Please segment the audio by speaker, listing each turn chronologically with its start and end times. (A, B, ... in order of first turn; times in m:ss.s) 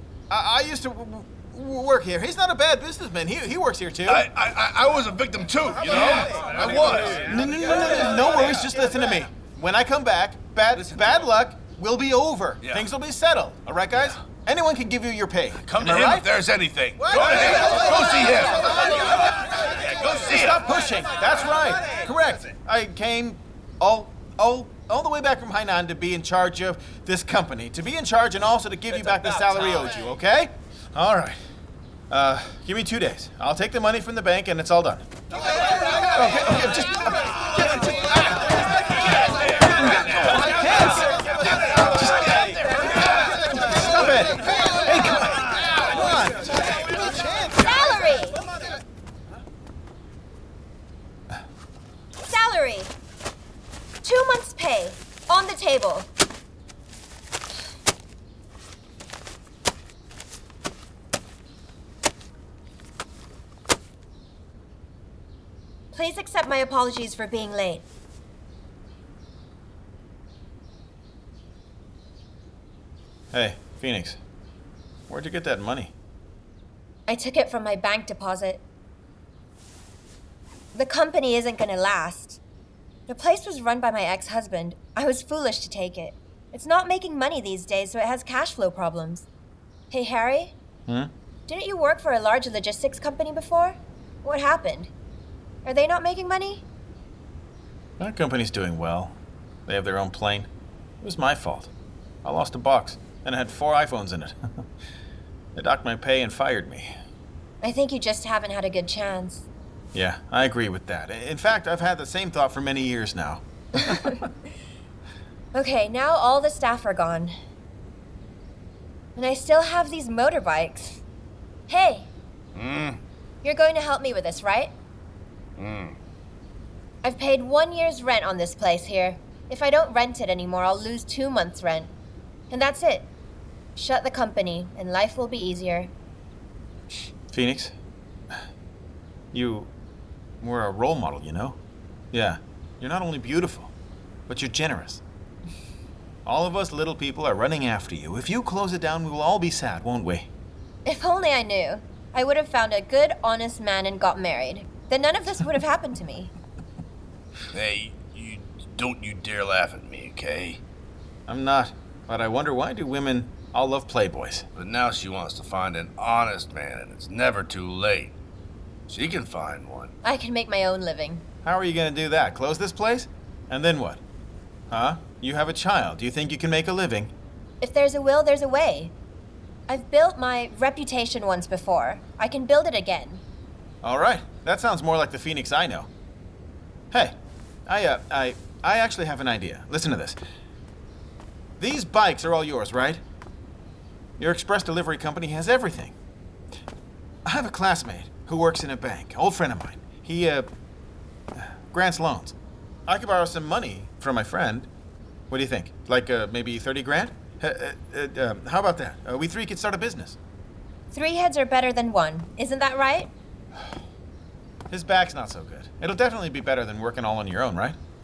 0:00.3-0:04.2 A
0:04.1-0:08.7 B
0:05.8-0:16.3 A
0:10.7-0:11.1 B
0:12.6-0:12.9 B
0:15.6-0:20.6 B
0:17.0-0:18.9 A
0:20.2-0:31.4 A
0:32.1-0:35.1 A
0:36.1-0:48.0 A
0:39.2-0:43.8 B
0:47.6-0:48.4 C
0:52.2-0:52.9 C
0:54.0-0:56.1 C
1:05.9-1:07.9 C
1:13.3-1:14.2 A
1:15.1-1:15.9 A
1:17.1-1:18.6 C
1:20.7-1:22.4 C
1:23.1-1:29.3 C
1:29.9-1:30.5 C
1:31.5-1:34.9 C
1:35.6-1:36.6 C
1:38.0-1:39.2 A
1:39.7-1:40.5 A
1:41.0-1:41.7 A
1:42.2-1:44.6 A
1:45.6-1:46.9 A
1:47.6-1:49.5 C
1:49.9-1:54.3 A
1:55.5-1:57.4 C
1:59.2-2:01.0 C
2:01.7-2:02.1 C
2:02.6-2:03.0 B
2:03.4-2:04.7 C
2:05.6-2:06.0 B
2:07.0-2:11.9 C
2:12.5-2:13.1 C
2:13.8-2:15.9 C
2:17.3-2:17.7 A
2:19.3-2:19.7 A
2:20.4-2:21.6 A
2:22.1-2:23.7 A
2:24.3-2:25.0 A
2:26.3-2:30.3 A
2:30.8-2:36.3 C
2:37.5-2:40.6 B
2:41.3-2:44.4 A
2:44.6-2:48.2 B
2:48.9-2:50.0 B
2:50.0-2:51.2 C
2:51.4-2:54.0 A
2:54.7-2:57.1 A
2:57.6-2:58.9 C
2:59.7-3:03.2 C
3:03.8-3:05.9 A
3:07.7-3:10.2 A
3:11.6-3:13.0 A
3:14.2-3:15.9 A
3:17.3-3:20.5 A
3:21.4-3:22.4 A
3:22.9-3:24.7 A
3:25.3-3:30.2 A
3:30.9-3:33.1 C
3:34.7-3:37.8 A